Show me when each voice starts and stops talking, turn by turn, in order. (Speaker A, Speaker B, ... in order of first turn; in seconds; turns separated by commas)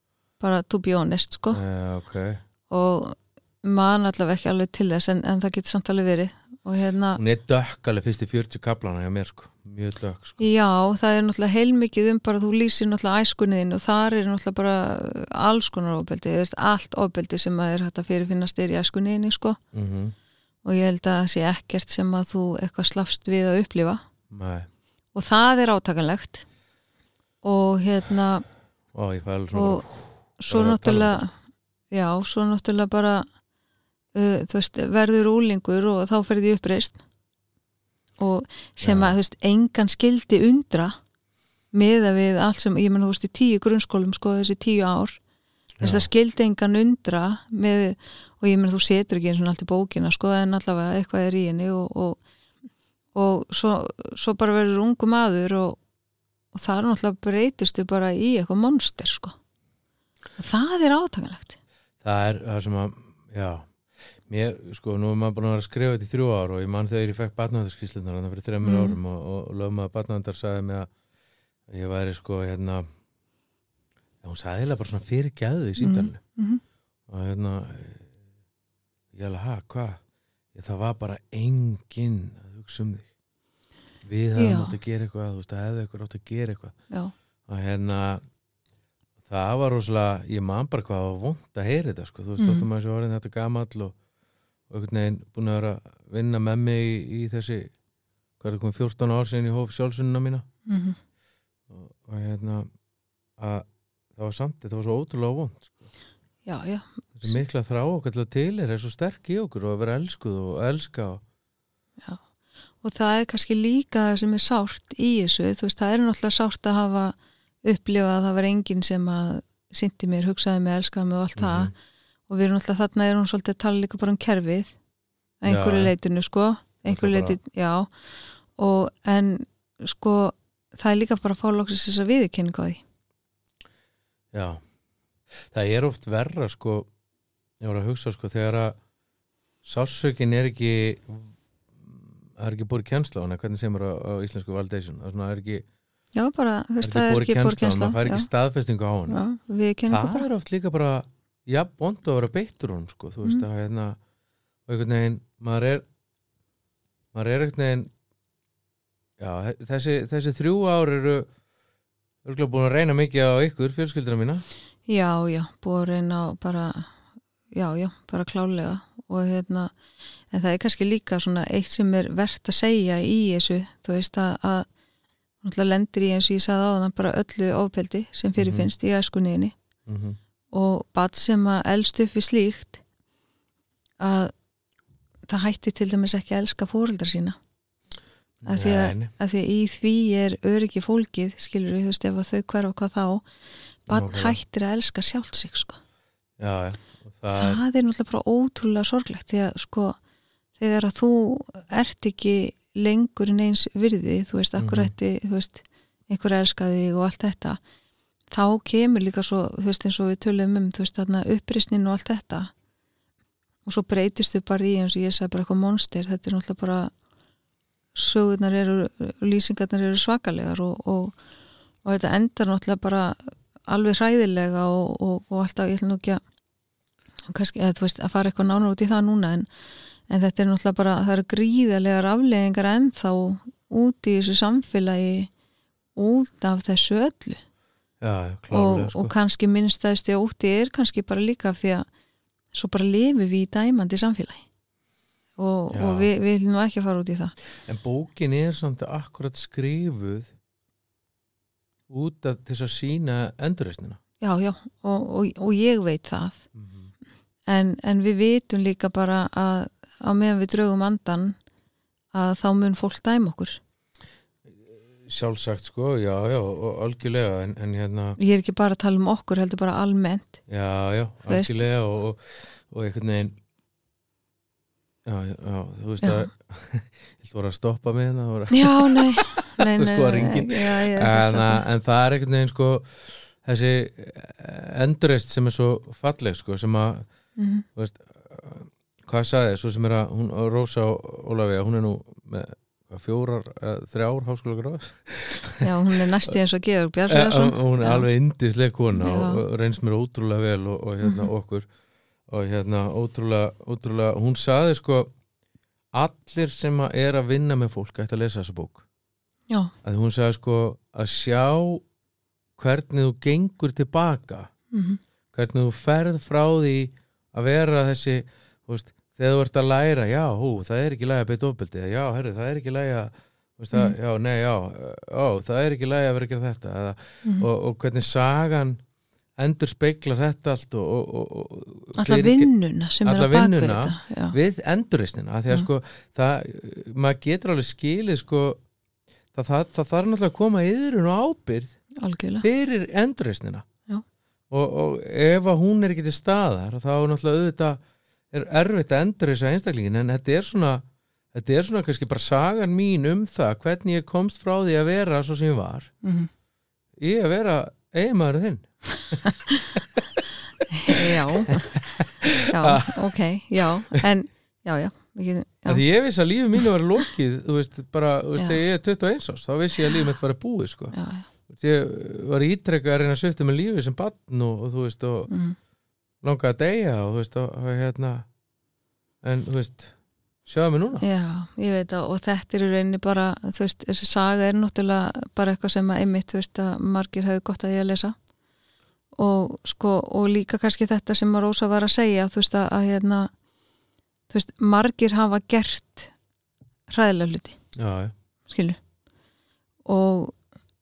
Speaker A: 0.4-1.6, Speaker B: 1.5-2.4, Speaker A: 2.7-7.2, Speaker B: 7.2-10.4, Speaker A: 10.4-19.6, Speaker B: 19.7-20.1, Speaker A: 20.6-24.0, Speaker B: 24.3-24.7, Speaker A: 25.1-26.4, Speaker A: 27.4-28.4, Speaker B: 28.9-31.2, Speaker A: 29.5-29.8, Speaker A: 30.4-31.3, Speaker A: 31.9-33.2, Speaker A: 34.1-37.0, Speaker A: 38.2-41.0, Speaker B: 38.8-39.1, Speaker A: 41.7-45.2, Speaker B: 45.8-46.1, Speaker A: 45.8-52.2, Speaker A: 53.1-55.8, Speaker A: 56.5-59.3, Speaker A: 60.4-61.6, Speaker B: 62.0-63.6, Speaker B: 64.3-70.9, Speaker A: 68.6-69.0, Speaker B: 71.7-72.8, Speaker B: 74.2-76.2, Speaker A: 75.8-76.6, Speaker B: 77.1-78.1, Speaker B: 79.1-80.0, Speaker B: 80.5-83.1, Speaker B: 84.0-86.7, Speaker A: 84.3-84.8, Speaker B: 87.5-88.2, Speaker B: 89.2-93.9, Speaker A: 92.4-92.7, Speaker B: 94.7-97.7, Speaker B: 98.4-100.4, Speaker A: 100.7-101.0, Speaker B: 101.7-102.7, Speaker B: 103.4-105.9, Speaker A: 106.5-107.4, Speaker B: 107.2-111.2, Speaker A: 112.8-121.7, Speaker B: 121.4-121.7, Speaker A: 122.3-124.7, Speaker A: 125.4-127.9, Speaker B: 125.5-125.9, Speaker B: 126.8-127.4, Speaker A: 128.6-132.8, Speaker B: 134.3-134.6, Speaker B: 135.5-136.9, Speaker B: 137.6-138.8, Speaker B: 139.6-145.6, Speaker A: 146.1-148.3, Speaker B: 146.8-149.2, Speaker A: 149.1-150.3, Speaker B: 149.9-154.0, Speaker B: 154.7-155.8, Speaker B: 157.1-157.9, Speaker B: 159.2-161.3, Speaker B: 162.2-164.4, Speaker A: 164.9-166.9, Speaker A: 167.5-169.7, Speaker A: 170.3-174.7, Speaker A: 175.4-179.5, Speaker B: 178.4-178.7, Speaker B: 179.8-180.2, Speaker A: 180.5-182.8, Speaker A: 184.0-184.3, Speaker A: 185.3-187.3, Speaker B: 188.4-189.1, Speaker A: 188.4-193.2, Speaker A: 193.9-195.8, Speaker B: 193.9-194.4, Speaker B: 196.4-197.6, Speaker A: 197.3-200.0, Speaker A: 200.6-207.6, Speaker B: 204.6-204.9, Speaker A: 208.3-212.5, Speaker A: 213.7-216.9, Speaker A: 217.9-221.2, Speaker A: 221.8-223.2, Speaker A: 223.7-226.2, Speaker A: 227.3-229.5, Speaker A: 230.1-235.3, Speaker A: 235.9-237.4, Speaker B: 238.0-239.1, Speaker A: 238.5-241.8, Speaker A: 242.5-244.4, Speaker A: 245.4-247.3, Speaker B: 245.7-246.1, Speaker B: 247.7-250.3, Speaker B: 251.9-254.0, Speaker A: 254.2-256.4, Speaker B: 256.5-256.9, Speaker A: 257.5-261.4, Speaker A: 262.1-263.6, Speaker B: 264.5-268.2, Speaker A: 268.2-270.4, Speaker B: 270.5-273.4, Speaker A: 271.2-271.6, Speaker B: 275.0-282.9, Speaker A: 276.0-276.3, Speaker A: 278.5-281.6, Speaker B: 283.4-287.1, Speaker A: 287.4-287.6, Speaker B: 287.8-295.7, Speaker A: 295.6-298.1, Speaker B: 297.1-301.6, Speaker A: 298.9-299.4, Speaker A: 301.0-301.3, Speaker B: 302.3-305.1, Speaker B: 305.9-308.8, Speaker B: 309.8-311.8, Speaker B: 312.6-314.5, Speaker A: 314.7-315.0, Speaker B: 315.3-328.8, Speaker B: 329.4-332.5, Speaker A: 332.0-334.4, Speaker B: 333.0-338.6, Speaker B: 339.3-341.8, Speaker A: 342.0-342.4, Speaker B: 342.4-343.6, Speaker B: 344.5-350.8, Speaker B: 351.3-355.9, Speaker A: 356.0-356.3, Speaker B: 357.0-360.2, Speaker A: 359.2-359.6, Speaker A: 360.7-361.7, Speaker B: 360.9-363.1, Speaker A: 362.5-365.8, Speaker B: 365.7-370.9, Speaker A: 370.9-371.3, Speaker B: 371.5-375.3, Speaker A: 375.3-375.6, Speaker B: 376.2-378.2, Speaker B: 379.2-379.9, Speaker B: 380.4-381.0, Speaker A: 381.0-388.1, Speaker A: 389.2-393.3, Speaker A: 394.3-396.1, Speaker A: 396.9-397.6, Speaker B: 397.8-398.1, Speaker A: 398.5-398.8, Speaker A: 399.9-400.4